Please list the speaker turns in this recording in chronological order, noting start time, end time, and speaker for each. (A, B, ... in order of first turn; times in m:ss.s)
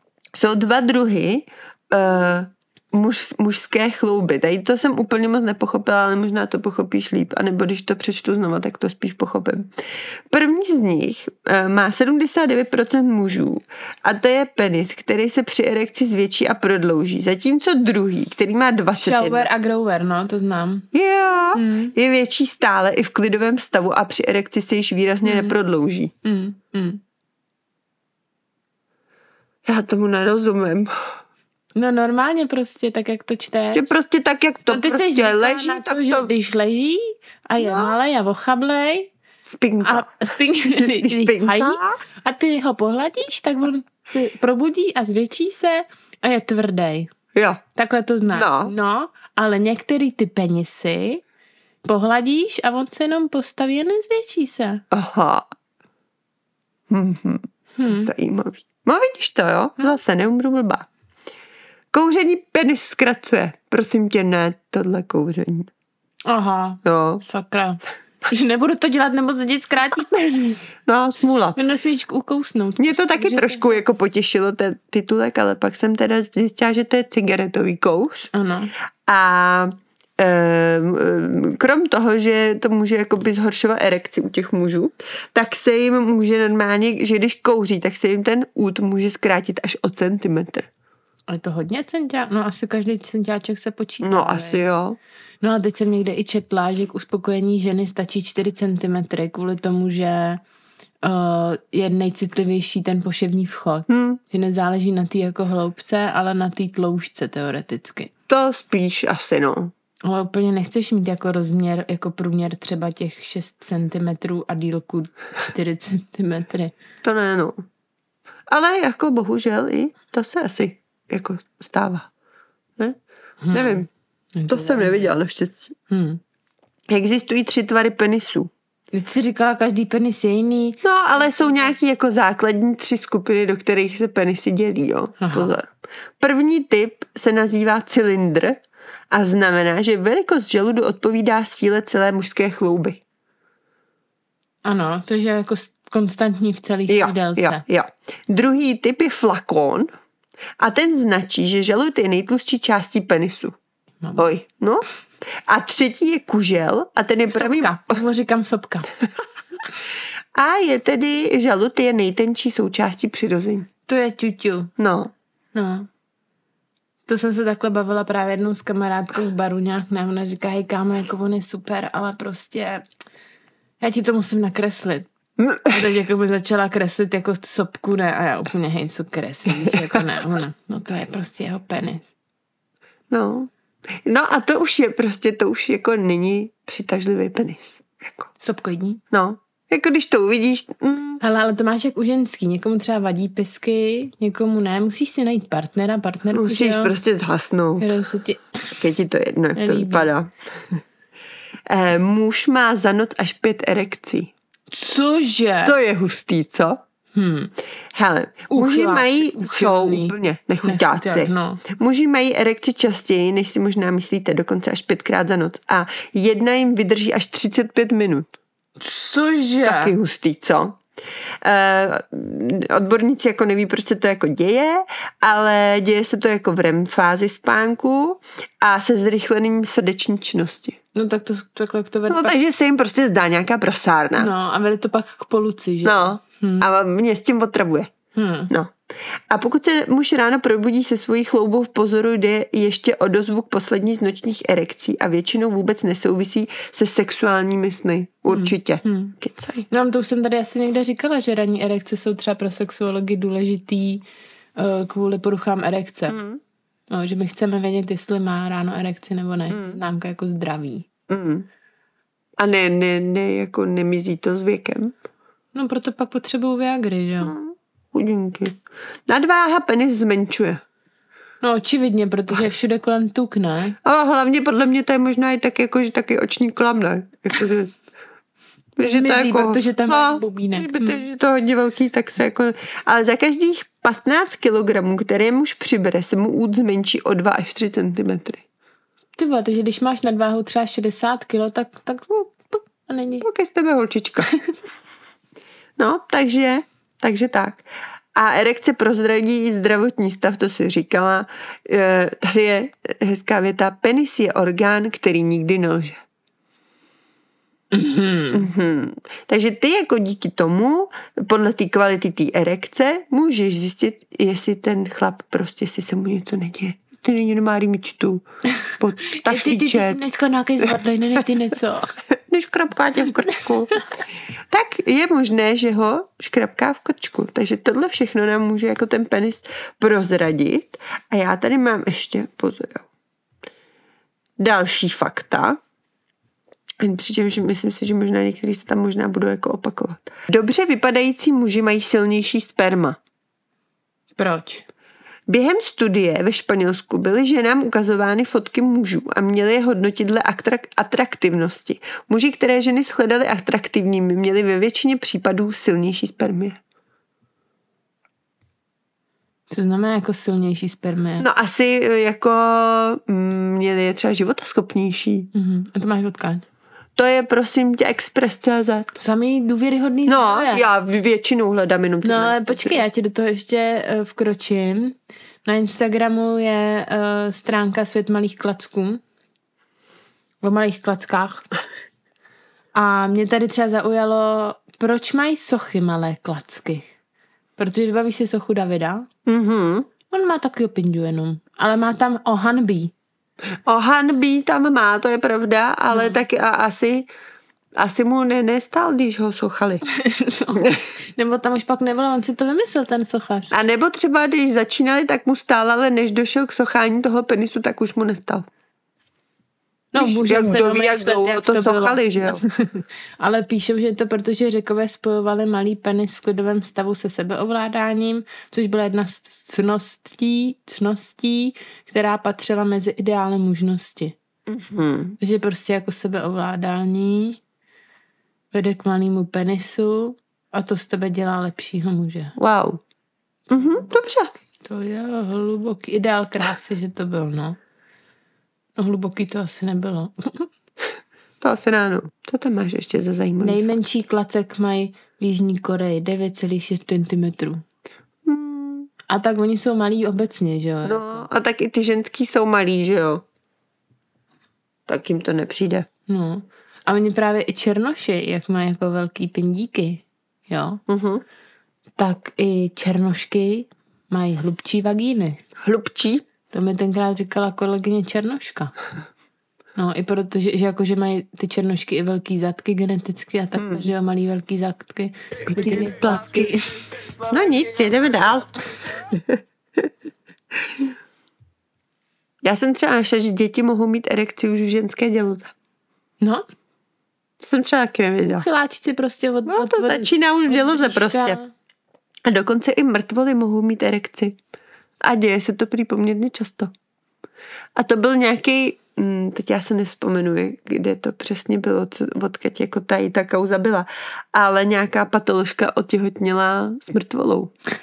0:00.3-0:09.7 A
0:10.3-0:19.5 A
0:19.0-0:20.9 B
0:20.9-0:26.1 A
0:21.5-0:21.9 B
0:25.2-0:25.5 B
0:26.2-0:27.0 B
0:29.6-0:31.1 A
0:31.7-0:33.8 B
0:33.7-0:36.3 A
0:34.7-0:39.1 B
0:37.6-0:37.9 A
0:39.5-0:40.1 A
0:39.8-0:47.1 B
0:40.7-0:42.0 A
0:47.3-0:47.6 A
0:47.8-0:51.2 B
0:48.3-0:48.7 A
0:51.8-0:54.8 B
0:54.9-0:55.5 A
0:56.9-1:00.9 A
0:57.8-0:58.1 B
1:01.9-1:05.7 A
1:06.2-1:10.7 B
1:06.8-1:07.2 A
1:10.8-1:11.6 A
1:11.6-1:13.8 B
1:12.8-1:18.3 A
1:18.3-1:18.7 B
1:19.1-1:30.7 A
1:31.3-1:34.6 B
1:34.0-1:35.0 A
1:35.4-1:40.4 B
1:41.0-1:48.1 B
1:43.9-1:44.2 A
1:48.3-1:49.7 A
1:50.0-1:56.7 B
1:57.0-1:57.6 A
1:58.5-2:02.1 A
2:03.4-2:05.2 B
2:03.5-2:03.9 A
2:04.5-2:05.7 A
2:05.9-2:06.2 B
2:06.9-2:08.5 A
2:08.9-2:11.7 B
2:10.8-2:23.0 A
2:15.2-2:15.5 B
2:24.6-2:27.6 B
2:26.9-2:29.9 A
2:30.6-2:33.6 A
2:34.0-2:34.3 B
2:34.2-2:34.8 A
2:35.5-2:38.0 A
2:37.3-2:38.9 B
2:40.3-2:43.7 A
2:43.9-2:44.7 B
2:44.8-2:45.1 A
2:45.5-2:45.9 B
2:47.1-2:52.8 B
2:53.8-2:55.1 B
2:55.4-2:55.8 A
2:55.6-3:02.1 B
2:59.6-2:59.9 A
3:03.1-3:03.5 A
3:04.0-3:08.3 A
3:08.4-3:09.0 B
3:09.1-3:11.2 A
3:11.2-3:16.9 B
3:16.3-3:17.9 A
3:17.8-3:18.7 B
3:18.7-3:20.8 A
3:19.6-3:20.1 B
3:21.7-3:24.3 A
3:24.7-3:25.8 B
3:25.6-3:26.8 A
3:27.1-3:27.5 B
3:27.9-3:38.3 A
3:28.5-3:31.6 B
3:38.8-3:40.0 B
3:39.6-3:40.8 A
3:41.4-3:50.8 A
3:50.9-3:52.3 B
3:52.1-3:54.3 A
3:54.2-3:56.7 B
3:55.8-3:57.9 A
3:58.1-3:58.5 B
3:59.3-4:09.7 A
4:08.3-4:09.1 B
4:09.7-4:14.0 B
4:14.6-4:16.2 B
4:16.1-4:16.4 A
4:16.9-4:20.8 B
4:19.5-4:19.8 A
4:21.1-4:21.5 A
4:22.4-4:24.9 A
4:25.5-4:27.3 B
4:27.2-4:30.6 A
4:31.4-4:33.8 B
4:33.8-4:37.7 A
4:38.8-4:48.4 A
4:38.8-4:41.0 B
4:49.2-4:53.2 B
4:53.2-4:54.3 A
4:55.8-4:57.6 A
4:58.1-5:06.0 A
5:07.7-5:08.5 B
5:08.3-5:20.0 A
5:19.2-5:21.9 B
5:22.3-5:23.8 A
5:24.5-5:32.8 A
5:34.4-5:35.6 A
5:36.8-5:43.0 A
5:44.2-5:44.6 B
5:45.3-5:56.6 A
5:59.5-6:01.2 B
6:01.2-6:05.3 A
6:05.3-6:06.4 B
6:07.0-6:08.9 A
6:09.0-6:10.6 B
6:10.1-6:12.8 A
6:12.0-6:19.0 B
6:20.4-6:21.5 B
6:22.7-6:26.8 B
6:27.6-6:29.1 B
6:29.2-6:29.9 A
6:30.1-6:32.9 B
6:33.7-6:37.1 A
6:35.9-6:36.2 B
6:37.8-6:39.8 A
6:39.9-6:43.5 B
6:43.5-6:48.4 A
6:49.9-7:04.1 B
6:50.0-6:52.4 A
7:04.5-7:05.2 A
7:05.2-7:07.4 B
7:08.5-7:12.3 B
7:12.4-7:12.8 A
7:13.5-7:14.3 A
7:13.5-7:13.8 B
7:14.6-7:17.6 B
7:18.8-7:20.5 B
7:21.4-7:23.7 A
7:23.4-7:27.6 B
7:28.2-7:28.9 A
7:29.1-7:31.2 B
7:30.8-7:33.2 A
7:34.9-7:35.9 A
7:36.1-7:40.8 B
7:40.9-7:41.2 A
7:42.0-7:45.4 B
7:45.6-7:46.2 A
7:46.5-7:48.7 B
7:49.7-7:56.8 B
7:53.6-7:53.9 A
7:55.5-7:56.5 A
7:57.2-7:59.9 A
8:02.4-8:05.5 A
8:06.2-8:06.4 B
8:07.4-8:08.5 A
8:08.3-8:11.5 B
8:09.4-8:11.4 A
8:12.2-8:14.4 A
8:15.0-8:16.7 A
8:17.8-8:27.5 A